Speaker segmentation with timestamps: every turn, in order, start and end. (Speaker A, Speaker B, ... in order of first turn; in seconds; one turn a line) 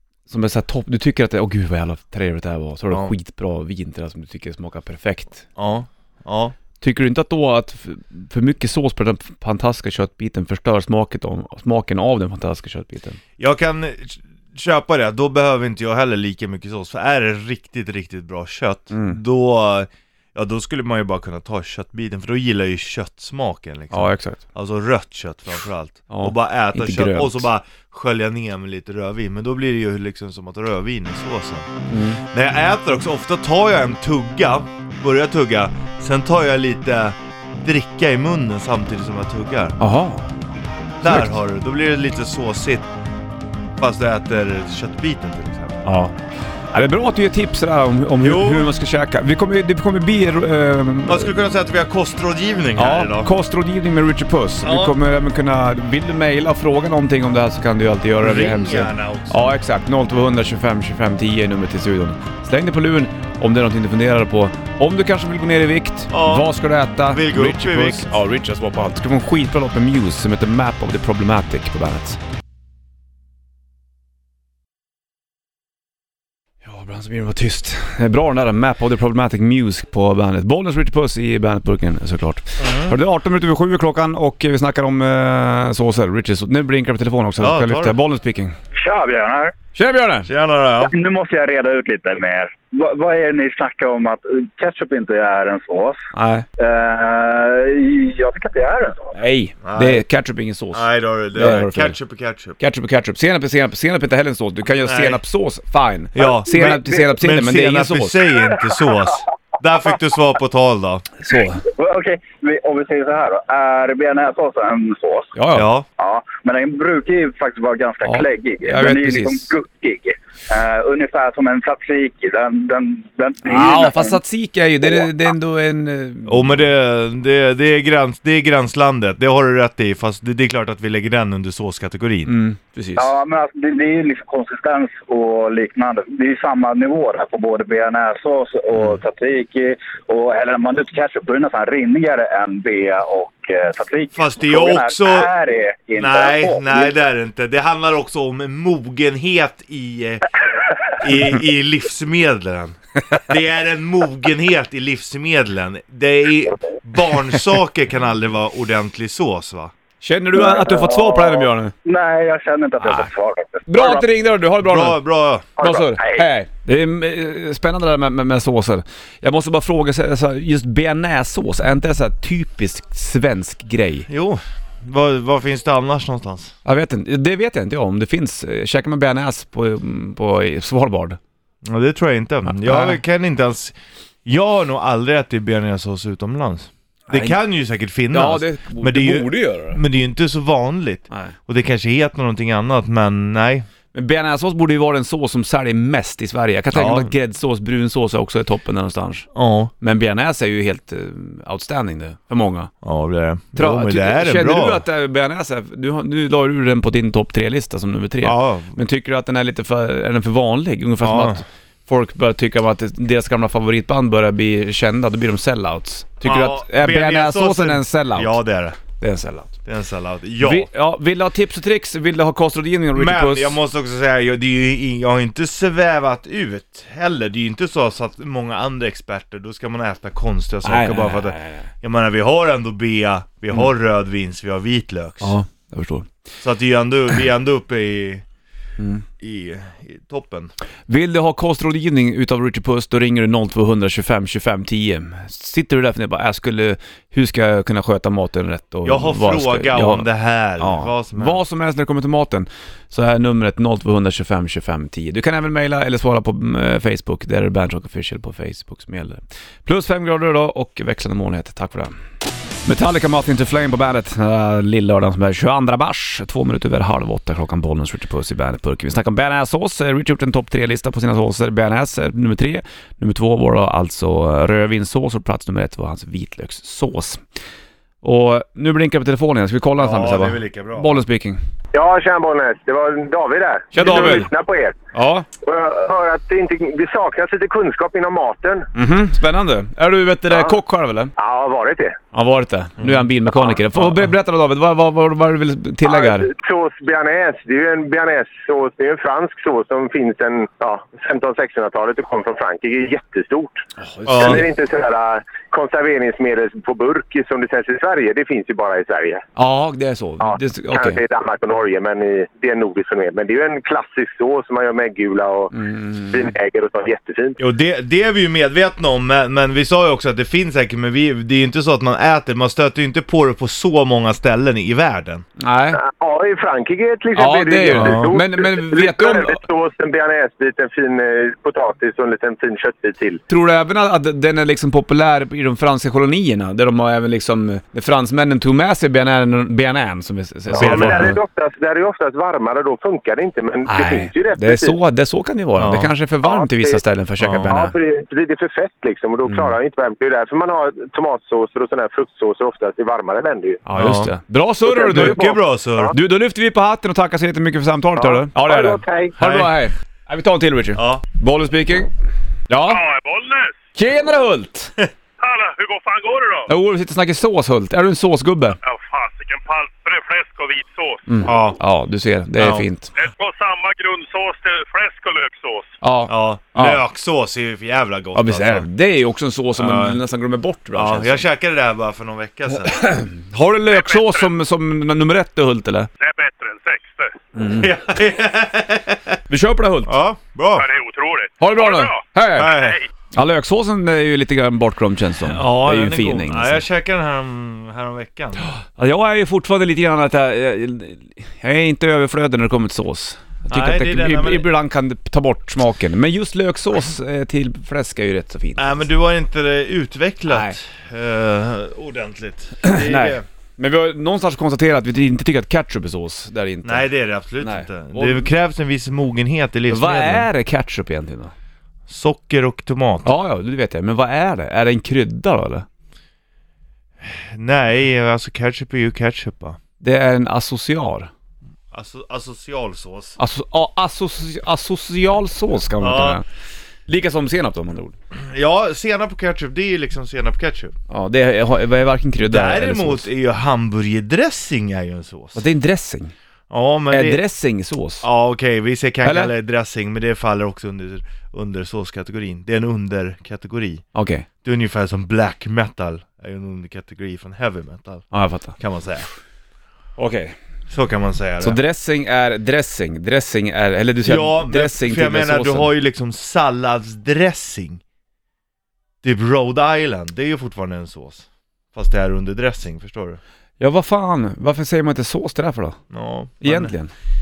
Speaker A: 0.3-5.5
Speaker B: 5.6-6.6
Speaker A: 6.8-13.2
Speaker B: 13.4-39.8
Speaker A: 18.9-19.2
Speaker A: 23.9-24.4
Speaker A: 26.1-27.5
Speaker A: 31.9-32.2
Speaker A: 39.8-40.3
Speaker B: 41.0-42.9
Speaker A: 41.0-41.3
Speaker B: 43.8-45.9
Speaker A: 45.9-46.1
Speaker A: 46.7-51.3
Speaker B: 48.2-48.7
Speaker B: 51.1-53.3
Speaker A: 52.8-72.2
Speaker B: 54.6-55.0
Speaker B: 58.2-59.4
Speaker B: 66.1-66.5
Speaker B: 67.1-68.2
Speaker A: 76.6-88.6
Speaker B: 82.6-83.0
Speaker B: 87.4-88.0
Speaker C: 88.8-89.5
Speaker A: 89.8-90.3
Speaker B: 90.3-90.9
Speaker C: 90.9-96.0
Speaker A: 96.1-96.5
Speaker C: 96.6-99.1
Speaker A: 99.1-102.0
Speaker B: 99.6-100.0
Speaker B: 100.7-102.6
Speaker A: 102.6-108.2
Speaker B: 104.8-105.2
Speaker B: 106.2-111.1
Speaker A: 111.2-111.6
Speaker C: 111.7-115.3
Speaker A: 115.3-115.7
Speaker B: 115.5-115.9
Speaker C: 116.0-124.2
Speaker A: 118.0-119.5
Speaker A: 123.4-126.7
Speaker B: 126.3-132.3
Speaker A: 132.3-133.1
Speaker C: 133.0-146.9
Speaker B: 144.2-145.3
Speaker B: 146.0-150.3
Speaker B: 151.0-159.7
Speaker A: 160.0-161.7
Speaker C: 160.3-164.1
Speaker A: 162.8-163.1
Speaker A: 163.7-165.0
Speaker B: 164.6-165.5
Speaker A: 165.6-174.1
Speaker C: 165.6-166.2
Speaker B: 174.1-176.5
Speaker A: 176.7-181.2
Speaker B: 181.6-193.7
Speaker A: 182.5-183.0
Speaker A: 187.1-187.4
Speaker A: 188.1-189.8
Speaker A: 193.9-199.3
Speaker B: 196.7-197.1
Speaker B: 199.3-199.7
Speaker A: 199.8-202.7
Speaker B: 202.8-204.8
Speaker A: 203.6-218.4
Speaker B: 208.2-208.8
Speaker B: 211.0-211.4
Speaker B: 216.2-218.8
Speaker A: 219.0-219.6
Speaker B: 219.7-220.7
Speaker A: 220.4-223.6
Speaker B: 222.9-235.3
Speaker A: 230.6-231.7
Speaker A: 235.2-236.1
Speaker B: 236.4-238.2
Speaker A: 238.8-239.0
Speaker B: 239.2-240.5
Speaker A: 240.9-262.0
Speaker B: 248.8-251.4
Speaker A: 262.6-277.2
Speaker A: 278.0-281.4
Speaker B: 279.8-281.0
Speaker D: 281.7-284.8
Speaker A: 283.7-284.3
Speaker A: 284.9-285.3
Speaker D: 285.4-288.7
Speaker A: 288.7-291.1
Speaker D: 290.3-290.6
Speaker D: 291.2-292.0
Speaker A: 292.1-296.3
Speaker B: 292.8-293.0
Speaker D: 295.9-303.6
Speaker A: 303.8-304.5
Speaker B: 304.1-304.4
Speaker D: 304.2-309.2
Speaker A: 309.4-311.0
Speaker D: 310.2-315.5
Speaker A: 315.5-316.3
Speaker D: 316.1-317.4
Speaker B: 317.4-325.3
Speaker A: 325.4-325.8
Speaker D: 325.7-333.2
Speaker A: 327.1-329.4
Speaker B: 327.7-328.1
Speaker A: 333.3-341.2
Speaker D: 340.5-344.8
Speaker B: 340.6-341.1
Speaker A: 343.7-347.8
Speaker B: 345.6-345.9
Speaker D: 346.2-346.8
Speaker B: 347.2-347.5
Speaker D: 347.5-353.6
Speaker A: 353.7-355.3
Speaker B: 353.7-354.1
Speaker D: 354.7-355.9
Speaker B: 354.9-355.9
Speaker A: 355.9-361.9
Speaker D: 358.0-359.1
Speaker B: 359.2-359.5
Speaker B: 360.8-361.0
Speaker A: 362.5-362.8
Speaker E: 362.7-363.6
Speaker A: 363.8-364.8
Speaker E: 365.2-366.5
Speaker A: 366.5-368.6
Speaker E: 368.6-371.4
Speaker A: 371.1-372.9
Speaker B: 371.2-371.6
Speaker B: 372.4-372.7
Speaker E: 373.0-375.7
Speaker A: 375.8-376.8
Speaker B: 376.1-378.7
Speaker A: 378.1-381.3
Speaker B: 379.6-380.0
Speaker B: 380.8-382.9
Speaker A: 382.6-385.9
Speaker E: 383.7-384.3
Speaker E: 386.0-387.2
Speaker A: 387.4-387.7
Speaker B: 387.5-389.2
Speaker A: 389.3-390.0
Speaker B: 389.9-390.7
Speaker E: 390.6-392.9
Speaker A: 391.4-396.6
Speaker B: 392.3-392.8
Speaker B: 395.2-398.5
Speaker A: 398.8-408.9
Speaker B: 403.5-404.5
Speaker B: 408.6-413.2
Speaker A: 410.3-410.6
Speaker A: 412.6-418.3
Speaker B: 416.6-420.3
Speaker A: 419.7-421.3
Speaker B: 421.9-423.1
Speaker A: 423.0-425.7
Speaker B: 427.0-429.6
Speaker A: 429.8-431.1
Speaker B: 431.7-433.2
Speaker A: 433.2-436.2
Speaker B: 435.8-436.2
Speaker A: 436.9-437.9
Speaker B: 438.1-440.8
Speaker A: 440.9-443.1
Speaker B: 442.3-445.4
Speaker A: 445.4-446.1
Speaker B: 446.5-447.2
Speaker A: 446.9-448.1
Speaker B: 448.0-453.8
Speaker A: 449.0-449.3
Speaker A: 453.9-454.3
Speaker B: 454.4-459.1
Speaker A: 458.1-458.6
Speaker A: 460.0-460.4
Speaker B: 460.7-461.6
Speaker A: 461.4-465.8
Speaker B: 464.0-467.8
Speaker B: 469.0-473.2
Speaker A: 473.6-475.8
Speaker B: 475.9-476.7
Speaker A: 476.4-476.9